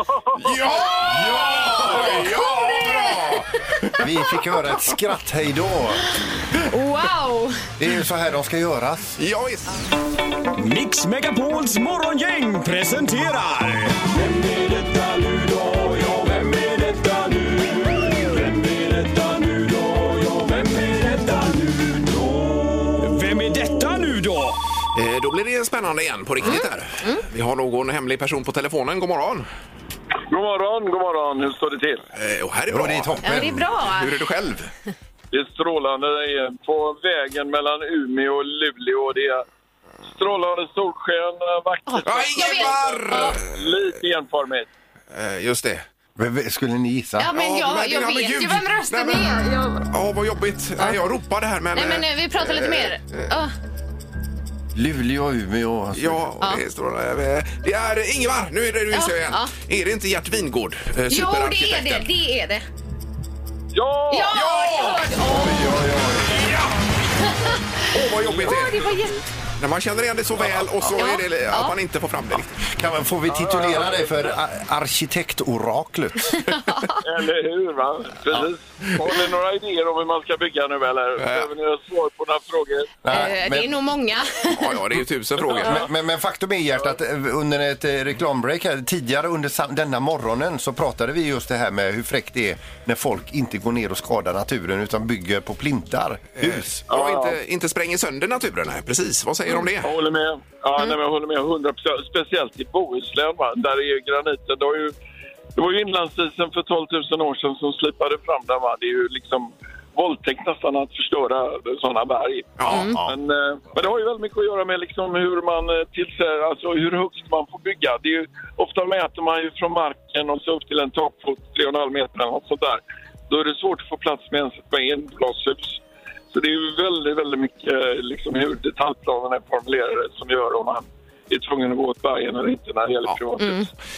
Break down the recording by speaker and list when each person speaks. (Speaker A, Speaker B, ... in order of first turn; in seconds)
Speaker A: 0.4-4.1, 9.2-9.7, 24.9-29.5, 32.1-33.3, 34.0-34.7, 42.0-43.9, 45.1-45.8, 47.3-53.3, 56.0-62.1, 64.3-66.7, 67.9-68.9, 69.6-72.6, 81.2-81.5, 84.5-85.8, 96.4-99.9, 112.6-112.9
Speaker B: 1.1-2.3, 4.0-6.1, 7.8-9.2, 32.7-33.7, 46.2-47.3, 54.8-56.2, 70.5-70.8, 72.6-76.4, 83.0-83.7, 85.6-96.9, 112.7-113.2
Speaker C: 2.4-3.4, 6.7-7.6, 26.4-27.2, 33.2-34.2, 41.9-43.4, 47.2-49.9, 51.7-53.5, 58.9-59.5, 61.1-62.6, 64.1-65.8, 67.2-69.3, 70.9-71.7, 76.4-77.0, 83.1-84.8, 112.7-113.0, 133.4-133.7
Speaker D: 10.6-24.6
Speaker E: 30.3-32.0, 35.3-39.5, 40.1-44.7, 63.7-64.5, 65.6-66.5, 68.0-69.2, 73.3-74.2, 77.0-83.0, 96.9-97.4, 99.8-105.0, 105.5-133.7